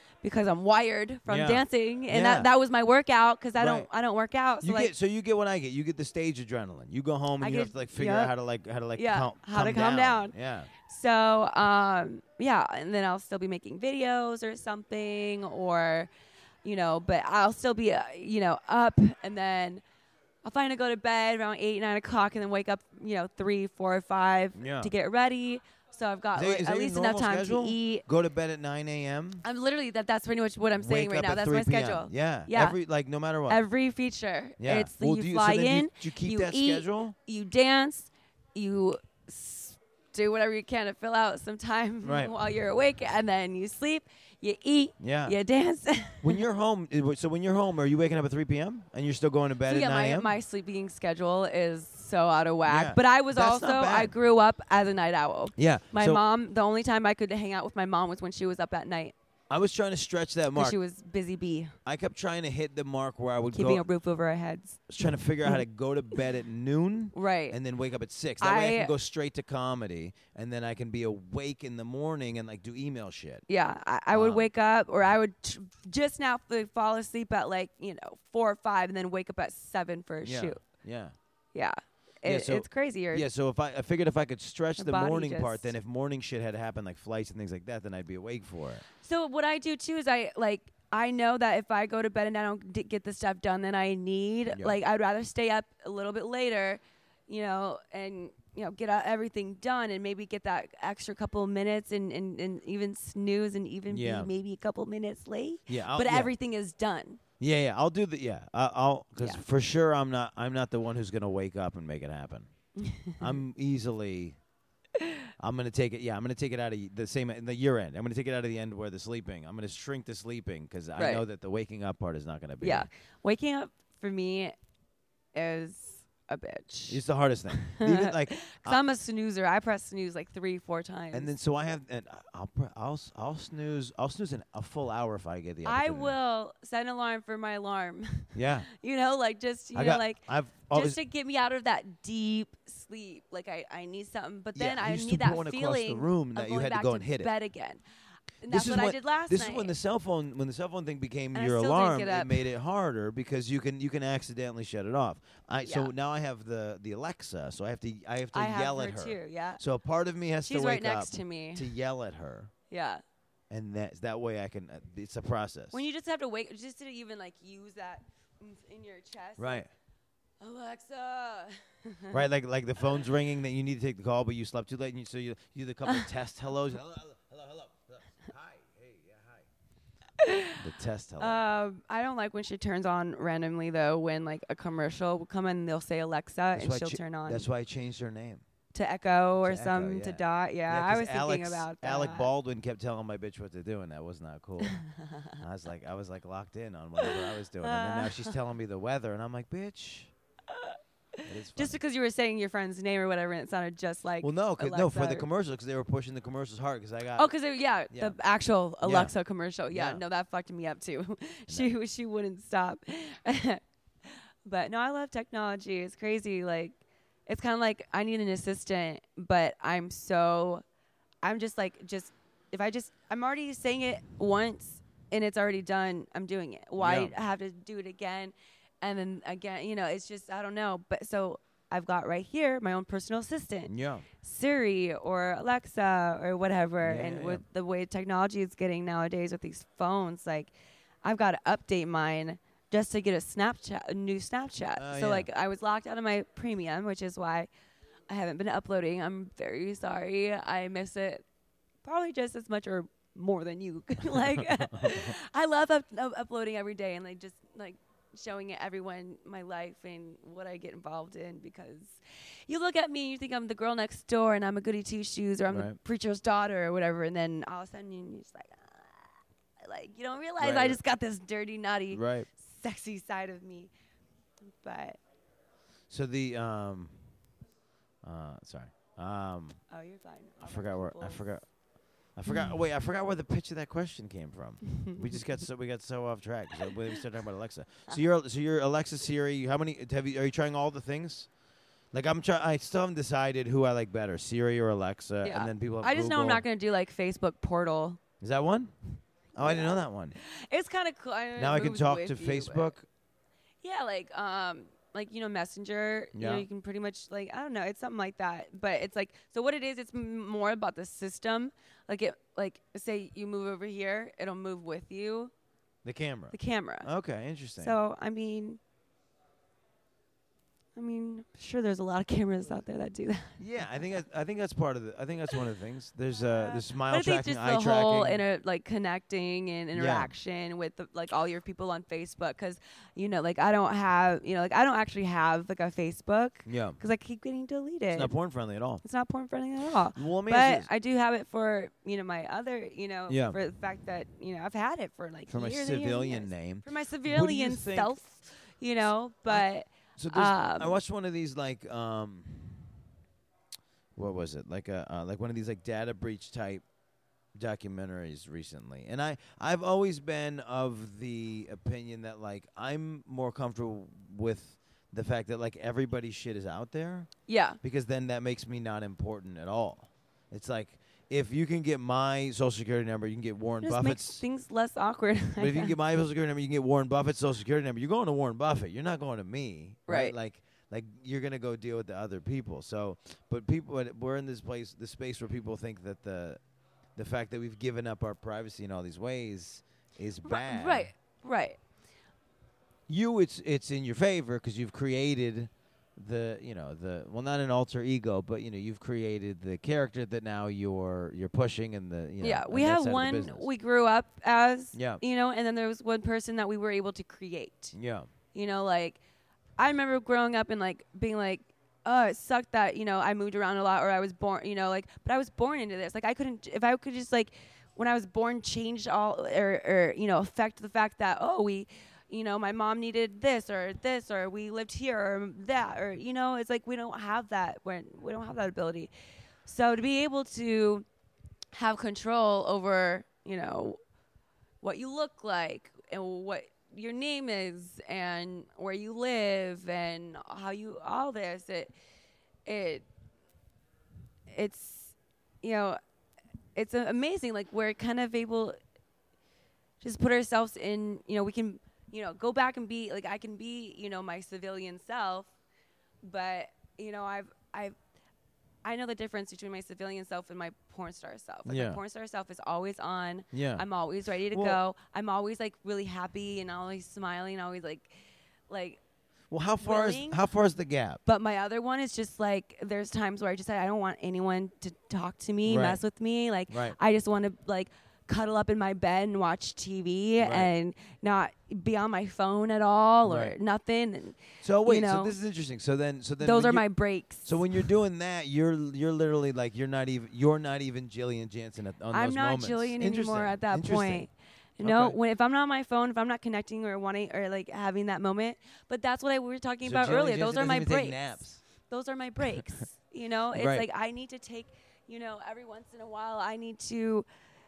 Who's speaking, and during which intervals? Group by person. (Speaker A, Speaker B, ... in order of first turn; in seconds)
Speaker A: 0.2-4.9, 7.4-8.3, 8.9-16.1, 16.6-19.8, 20.4-28.1, 29.4-32.8, 33.5-46.4, 49.6-59.1, 60.6-61.8, 63.5-64.8, 67.1-67.6, 68.4-68.9, 73.5-80.6, 81.5-83.2, 84.8-85.7, 89.0-107.2, 112.8-113.3, 121.0-121.2, 122.6-124.5, 125.3-127.0, 127.5-131.3, 135.7-147.8, 148.4-149.7, 151.3-152.4, 155.7-155.9, 158.3-159.6, 160.4-161.7, 162.7-163.0, 165.7-169.6, 170.4-172.2, 180.2-180.6, 181.2-187.5, 188.7-192.3, 194.6-195.4, 197.0-198.3, 200.5-205.3, 207.2-220.6, 221.2-240.5, 241.0-247.5, 248.1-251.2, 251.8-273.7, 274.6-275.0, 279.7-281.2, 282.3-282.5, 284.8-285.2, 295.2-298.0, 299.4-302.7, 303.6-315.3, 316.3-316.9, 317.6-318.6, 320.8-323.4, 326.3-338.1, 338.8-350.8, 367.3-367.6, 373.6-375.8, 379.9-380.1, 390.2-391.6, 402.2-407.8, 408.3-409.0, 409.6-428.9, 429.4-430.9, 431.5-433.8, 434.6-441.7, 442.5-442.9, 444.3-445.8, 446.6-448.6, 449.8-455.3, 456.0-457.8, 458.6-467.9, 468.5-468.8, 469.6-470.2, 471.1-485.1, 486.2-487.6, 491.9-507.1
Speaker B: 1.3-2.5, 3.6-3.9, 4.6-10.7, 24.6-24.9, 26.4-29.4, 30.8-33.6, 34.6-37.2, 42.0-42.3, 45.0-45.4, 46.2-50.3, 52.6-54.1, 55.6-56.2, 59.5-60.8, 61.9-63.9, 64.9-73.4, 74.1-74.5, 80.2-81.2, 82.2-88.9, 94.5-94.8, 103.9-104.3, 105.7-106.3, 107.4-112.5, 113.2-114.4, 115.4-122.9, 126.9-128.8, 131.1-136.2, 138.3-138.7, 139.7-141.0, 144.6-147.3, 148.4-162.5, 163.5-165.8, 169.4-169.7, 172.1-179.5, 180.6-181.4, 186.6-188.5, 189.4-194.8, 195.4-200.1, 201.2-201.8, 204.2-207.3, 208.8-209.1, 209.7-210.0, 226.8-227.2, 233.7-234.1, 236.8-237.4, 244.8-245.3, 254.4-255.0, 265.5-265.8, 270.4-270.8, 271.9-272.3, 275.9-276.9, 278.0-279.6, 280.4-281.5, 282.1-291.3, 291.9-296.4, 298.2-298.7, 299.4-300.2, 301.4-302.9, 306.1-306.4, 315.9-317.8, 323.4-328.2, 329.7-330.1, 336.5-336.8, 337.9-338.8, 339.9-340.7, 343.1-343.4, 345.3-348.0, 349.3-352.7, 354.0-356.6, 357.4-367.1, 367.6-374.2, 375.4-386.4, 386.9-390.9, 392.9-403.5, 404.7-405.0, 407.7-408.1, 461.5-461.8, 463.3-463.6, 464.3-464.6, 469.3-471.0, 475.4-475.8, 476.5-476.8, 480.2-480.5, 483.1-483.3, 484.4-486.7, 487.2-494.1, 494.6-494.9, 499.6-501.4, 502.4-502.6, 503.3-503.6